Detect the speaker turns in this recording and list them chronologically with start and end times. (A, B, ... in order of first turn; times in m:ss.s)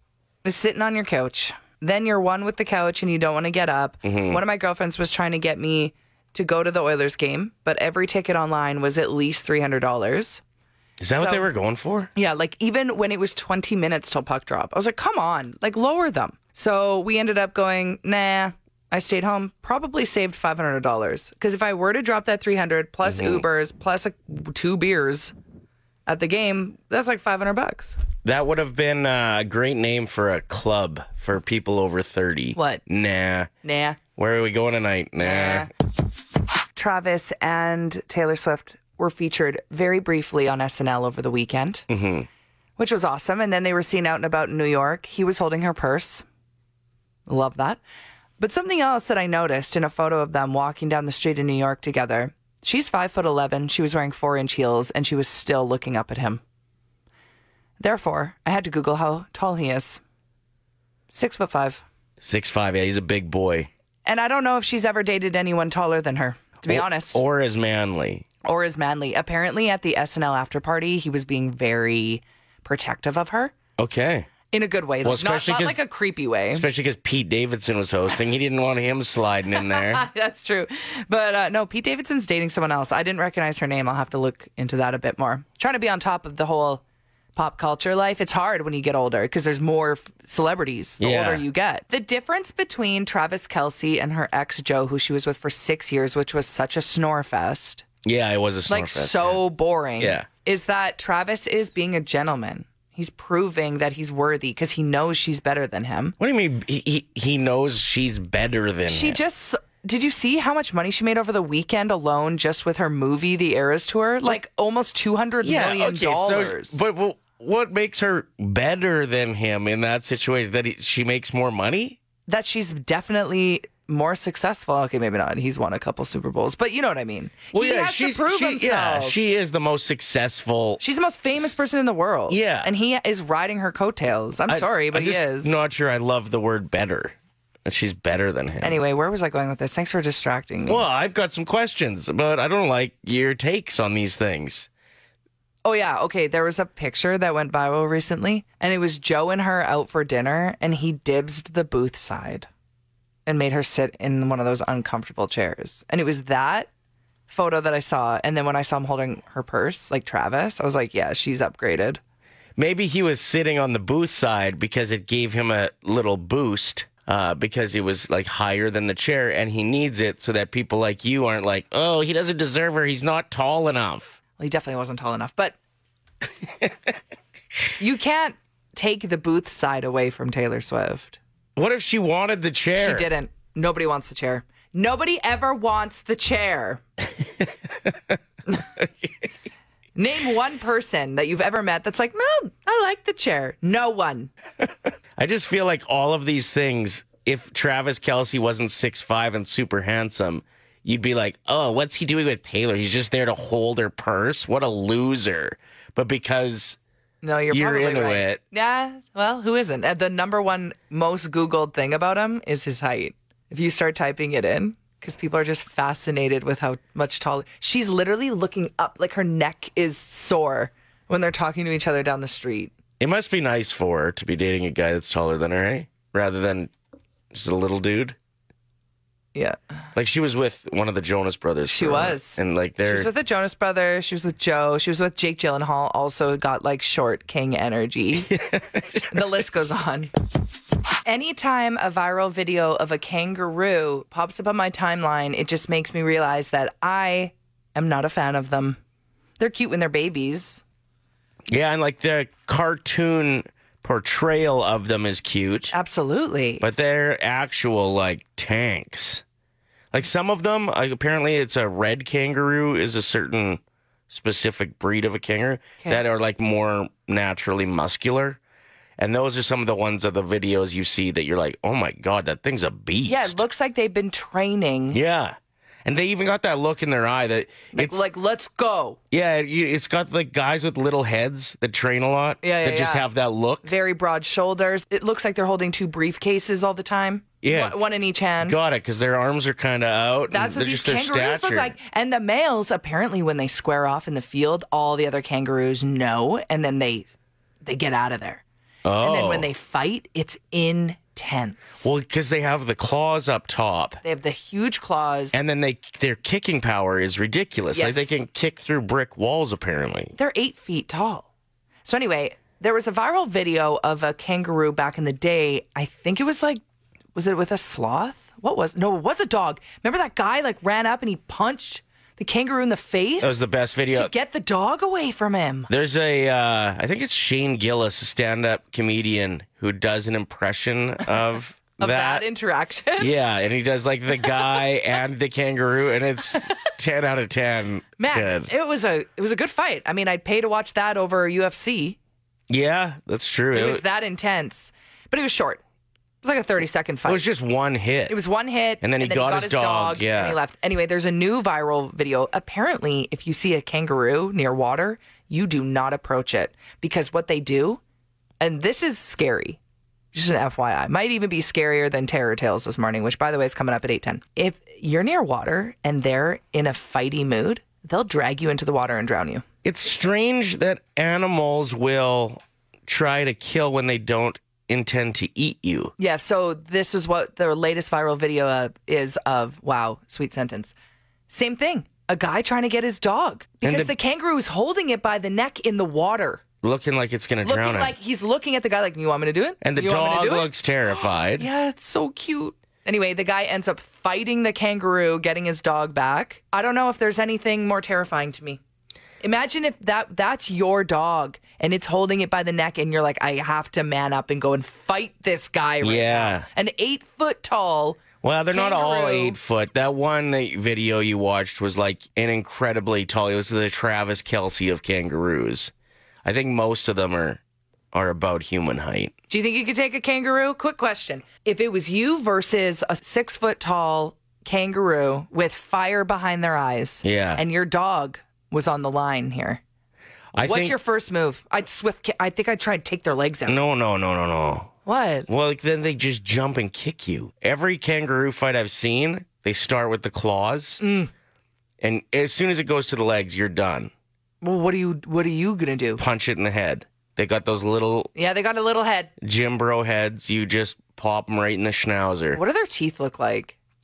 0:00.4-0:10.4 A
0:04.0-0:04.4 B
0:11.0-0:12.1 B
0:11.2-0:11.5 A
0:12.1-0:25.3 A
0:23.0-0:23.4 B
0:26.1-0:28.0 A
0:28.2-0:33.5 B
0:32.5-0:32.8 A
0:33.6-0:34.0 A
0:34.2-0:35.7 B
0:35.2-0:35.7 A
0:36.7-0:41.8 A
0:41.9-0:42.3 B
0:42.8-0:46.2 A
0:47.3-0:47.8 A
0:48.4-0:56.4 A
0:57.8-1:00.0 A
1:01.1-1:01.8 A
1:02.2-1:03.7 B
1:04.0-1:07.2 A
1:06.7-1:08.3 B
1:08.4-1:13.5 A
1:13.8-1:14.3 B
1:14.5-1:16.6 A
1:15.0-1:15.8 B
1:16.5-1:20.1 B
1:19.5-1:26.8 A
1:27.4-1:37.8 A
1:31.0-1:31.4 B
1:38.0-1:39.4 B
1:38.7-1:46.1 A
1:40.0-1:40.3 B
1:46.2-1:49.2 B
1:48.9-1:56.8 A
1:55.4-2:02.0 B
2:02.3-2:09.2 A
2:07.5-2:10.8 B
2:10.8-2:15.6 A
2:12.3-2:12.7 B
2:14.5-2:18.8 B
2:18.6-2:20.8 A
2:20.7-2:24.7 B
2:25.6-2:32.5 A
2:33.2-2:36.7 A
2:37.3-2:42.0 A
2:42.6-2:54.2 B
2:54.4-2:55.6 A
2:57.8-3:01.2 A
3:01.6-3:03.1 B
3:02.8-3:06.8 A
3:07.4-3:08.2 B
3:08.8-3:09.1 B
3:10.0-3:14.3 A
3:15.2-3:26.8 B
3:27.2-3:42.7 A
3:27.5-3:28.4 B
3:43.0-3:46.7 B
3:47.3-3:48.2 B
3:49.9-3:53.1 B
3:51.6-3:58.3 A
3:58.3-3:59.0 B
3:59.1-4:00.1 A
4:01.0-4:08.8 A
4:09.4-4:10.6 A
4:11.5-4:15.7 B
4:15.7-4:16.6 A
4:16.6-4:19.2 B
4:19.9-4:28.4 B
4:29.0-4:33.4 B
4:33.1-4:35.0 A
4:34.9-4:38.0 B
4:37.7-4:39.0 A
4:39.1-4:43.7 B
4:42.4-4:43.0 A
4:43.6-4:48.6 A
4:47.4-4:47.8 B
4:48.4-4:51.7 B
4:50.3-4:57.1 A
4:57.6-4:58.4 A
4:58.8-4:59.5 B
4:59.0-5:01.9 A
5:01.8-5:04.0 B
5:04.0-5:05.4 A
5:05.3-5:10.1 B
5:07.7-5:08.1 A
5:10.2-5:11.2 A
5:11.8-5:16.6 A
5:17.1-5:23.4 A
5:23.2-5:24.1 B
5:23.9-5:25.7 A
5:25.7-5:32.3 B
5:31.8-5:33.1 A
5:33.0-5:38.5 B
5:38.0-5:42.0 A
5:42.5-5:43.8 B
5:43.5-5:45.6 A
5:46.2-5:47.2 A
5:47.0-5:48.2 B
5:48.1-5:57.8 A
5:48.8-5:50.4 B
5:58.4-5:59.6 A
6:00.1-6:09.4 A
6:09.6-6:15.9 B
6:16.0-6:20.7 A
6:21.3-6:26.4 A
6:23.6-6:23.9 B
6:26.6-6:28.0 B
6:27.4-6:30.5 A
6:29.6-6:31.5 B
6:31.3-6:38.6 A
6:39.2-6:49.4 A
6:45.8-6:46.5 B
6:48.2-6:55.7 B
6:56.2-6:57.4 B
6:57.9-6:59.1 B
6:59.3-7:09.6 A
7:07.0-7:07.4 B
7:10.3-7:10.8 B
7:10.4-7:13.6 A
7:13.4-7:14.7 B
7:14.8-7:15.3 A
7:15.3-7:20.8 B
7:20.8-7:21.1 A
7:21.8-7:23.9 B
7:24.4-7:26.0 A
7:26.0-7:28.1 B
7:28.1-7:29.1 A
7:29.2-7:32.4 B
7:32.3-7:33.5 A